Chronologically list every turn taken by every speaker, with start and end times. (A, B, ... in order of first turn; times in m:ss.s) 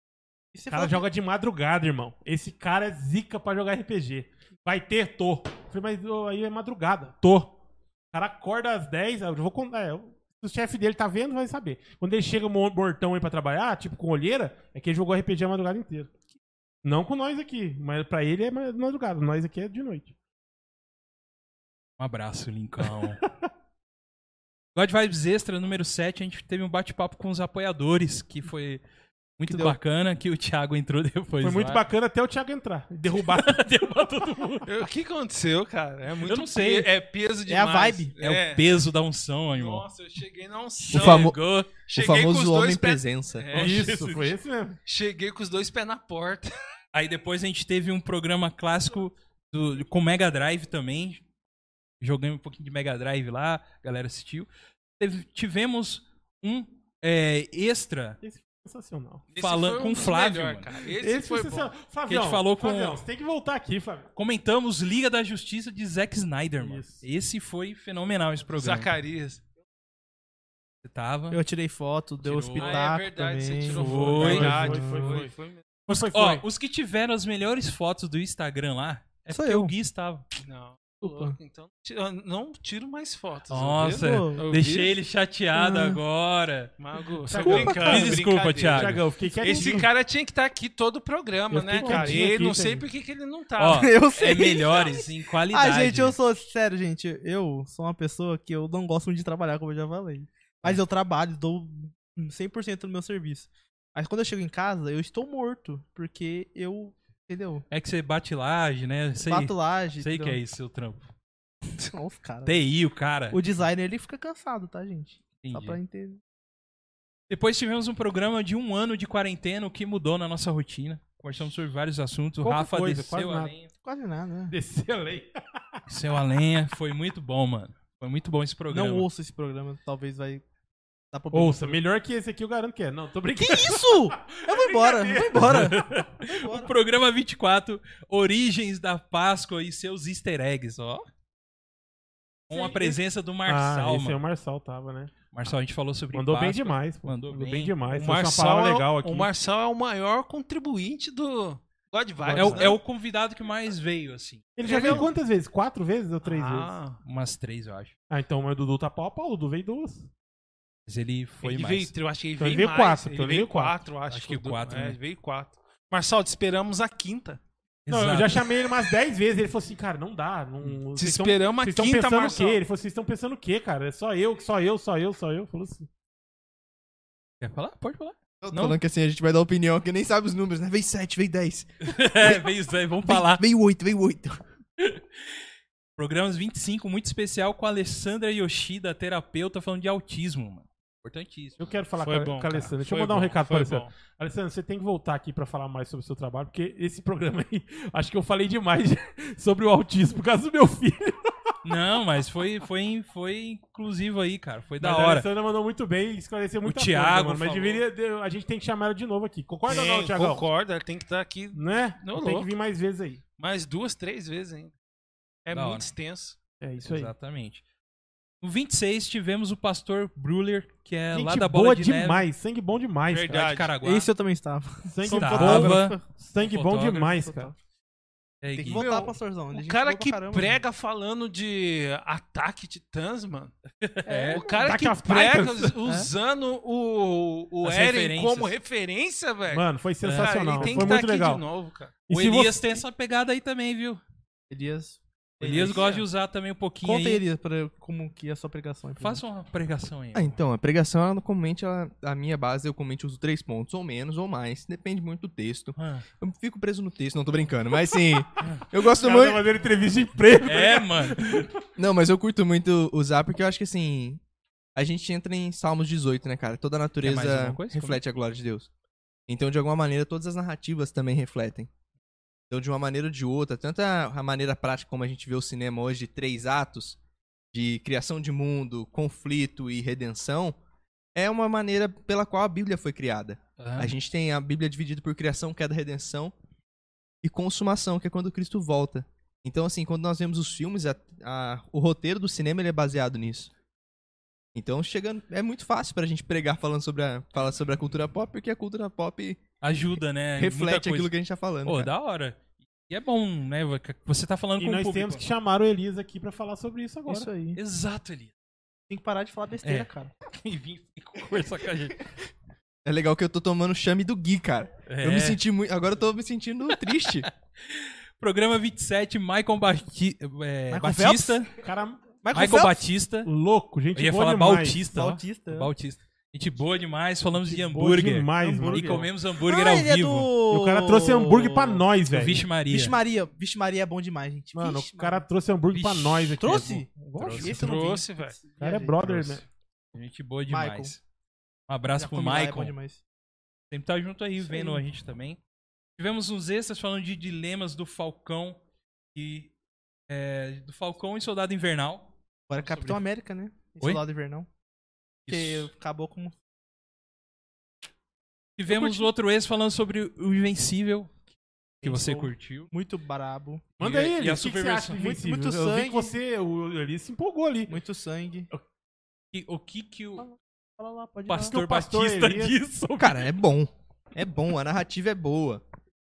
0:00.5-0:01.0 A
0:00.7-0:07.5 B
0:08.1-0:16.1 B
0:16.8-0:20.1 B
0:22.0-0:23.2 C
0:22.8-0:23.4 B
0:24.7-0:28.8 C
0:29.4-0:31.8 C
0:29.5-0:29.8 A
0:31.4-0:33.7 B
0:33.2-0:34.7 C
0:34.6-0:38.8 D
0:36.2-0:36.9 C
0:37.5-0:38.1 A
0:38.2-0:39.8 C
0:39.6-0:44.0 D
0:40.9-0:41.7 C
0:40.9-0:43.5 E
0:43.5-0:44.3 C
0:43.5-0:44.8 B
0:44.8-0:46.5 D
0:46.9-0:51.2 C
0:52.0-0:58.2 C
0:58.2-0:59.2 B
0:59.3-1:01.7 D
0:59.4-1:00.8 C
1:00.9-1:04.1 B
1:02.1-1:03.0 C
1:04.2-1:08.9 C
1:06.6-1:07.0 B
1:08.5-1:09.4 D
1:10.8-1:11.4 C
1:11.3-1:15.2 A
1:12.2-1:12.8 C
1:12.6-1:15.6 D
1:13.7-1:14.6 C
1:13.7-1:15.3 B
1:15.9-1:16.4 B
1:15.9-1:20.2 C
1:19.3-1:19.7 A
1:20.4-1:24.9 D
1:21.0-1:21.4 A
1:23.5-1:26.7 C
1:23.9-1:24.4 A
1:25.6-1:26.0 A
1:26.8-1:33.9 D
1:27.3-1:29.9 B
1:27.3-1:29.8 C
1:31.5-1:32.8 B
1:31.8-1:32.2 A
1:31.9-1:32.2 C
1:33.6-1:36.2 C
1:33.7-1:47.6 A
1:47.7-1:51.1 C
1:49.3-1:50.4 A
1:51.7-1:52.6 A
1:52.4-1:53.4 C
1:53.3-1:56.2 A
1:55.4-1:55.8 C
1:57.3-2:03.7 C
2:02.4-2:03.5 B
2:03.8-2:04.5 A
2:04.5-2:05.8 B
2:05.9-2:09.0 C
2:08.7-2:10.4 A
2:11.1-2:11.8 A
2:11.3-2:15.9 B
2:13.4-2:16.7 A
2:15.4-2:21.1 C
2:22.5-2:24.2 C
2:22.5-2:22.9 B
2:23.4-2:25.1 B
2:25.3-2:27.7 C
2:26.1-2:29.3 B
2:27.9-2:32.8 D
2:32.2-2:32.8 B
2:32.3-2:35.0 C
2:34.6-2:36.7 B
2:34.6-2:35.1 D
2:36.2-2:37.0 D
2:37.0-2:37.9 C
2:38.1-2:40.1 B
2:40.8-2:41.9 C
2:41.4-2:47.4 D
2:42.4-2:43.8 B
2:44.1-2:45.0 C
2:47.8-2:48.4 C
2:47.9-2:55.9 B
2:50.9-2:52.6 D
2:57.4-2:58.8 C
2:58.4-3:02.5 E
3:01.8-3:03.4 C
3:03.0-3:04.4 E
3:04.8-3:05.4 C
3:06.0-3:11.6 C
3:11.6-3:21.5 B
3:12.0-3:13.9 D
3:21.6-3:25.3 C
3:24.8-3:30.5 B
3:26.6-3:27.8 C
3:29.7-3:32.5 D
3:31.5-3:33.2 B
3:33.4-3:34.7 D
3:35.4-3:36.4 D
3:35.5-3:35.9 C
3:36.6-3:37.1 B
3:36.8-3:37.6 C
3:38.4-3:42.3 C
3:41.1-3:43.5 B
3:43.1-3:43.7 D
3:43.3-3:44.1 C
3:43.8-3:46.0 A
3:44.8-3:47.5 B
3:45.1-3:47.1 C
3:47.0-3:47.6 A
3:48.4-3:48.9 C
3:48.6-3:50.6 A
3:48.7-3:53.5 D
3:53.8-3:54.5 C
3:54.0-3:54.8 A
3:54.3-4:01.9 D
3:54.6-3:55.8 B
3:55.8-3:56.1 A
3:57.6-3:58.5 C
3:59.5-4:01.4 B
4:00.0-4:00.9 C
4:02.1-4:02.6 B
4:02.1-4:04.0 C
4:04.5-4:05.8 A
4:05.4-4:07.2 C
4:05.6-4:06.0 D
4:06.8-4:09.2 A
4:09.0-4:10.4 C
4:10.1-4:19.4 E
4:15.8-4:16.0 C
4:18.4-4:18.6 C
4:18.7-4:21.5 B
4:20.4-4:21.5 C
4:21.8-4:24.2 E
4:24.8-4:28.7 E
4:27.0-4:28.0 C
4:29.3-4:31.7 E
4:32.5-4:37.0 E
4:37.5-4:40.6 E
4:41.1-4:46.3 E
4:43.6-4:43.9 C
4:47.2-4:53.5 E
4:54.5-4:59.4 E
4:59.6-5:01.1 C
5:00.4-5:01.9 E
5:01.6-5:05.2 C
5:04.6-5:07.3 B
5:07.1-5:07.6 A
5:07.5-5:08.3 C
5:08.9-5:10.1 A
5:09.6-5:12.0 C
5:12.8-5:17.3 E
5:14.9-5:15.4 C
5:17.6-5:21.5 C
5:20.7-5:21.4 A
5:21.6-5:22.2 B
5:22.2-5:22.8 A
5:22.3-5:23.3 C
5:23.2-5:24.8 B
5:23.9-5:30.3 C
5:24.9-5:25.7 A
5:27.3-5:29.1 B
5:28.4-5:31.8 A
5:30.5-5:32.4 B
5:32.1-5:32.9 C
5:32.7-5:35.2 A
5:34.5-5:37.7 B
5:35.7-5:37.6 C
5:36.4-5:39.3 A
5:37.4-5:38.4 D
5:38.6-5:39.4 B
5:39.9-5:41.0 C
5:40.5-5:40.9 A
5:41.7-5:42.7 C
5:42.0-5:43.0 A
5:43.7-5:45.4 C
5:44.4-5:44.8 A
5:46.0-5:48.6 C
5:49.1-5:49.5 C
5:50.1-5:53.0 C
5:52.5-5:54.5 A
5:55.3-5:55.7 C
5:55.3-5:56.4 A
5:58.6-6:01.1 C
5:58.7-5:59.1 A
6:01.8-6:02.7 C
6:01.8-6:03.7 A
6:03.8-6:05.0 C
6:03.8-6:07.8 B
6:04.9-6:06.2 A
6:07.7-6:08.5 A
6:09.3-6:10.2 C
6:10.2-6:11.6 A
6:11.3-6:13.3 C
6:11.4-6:12.6 B
6:13.0-6:15.6 E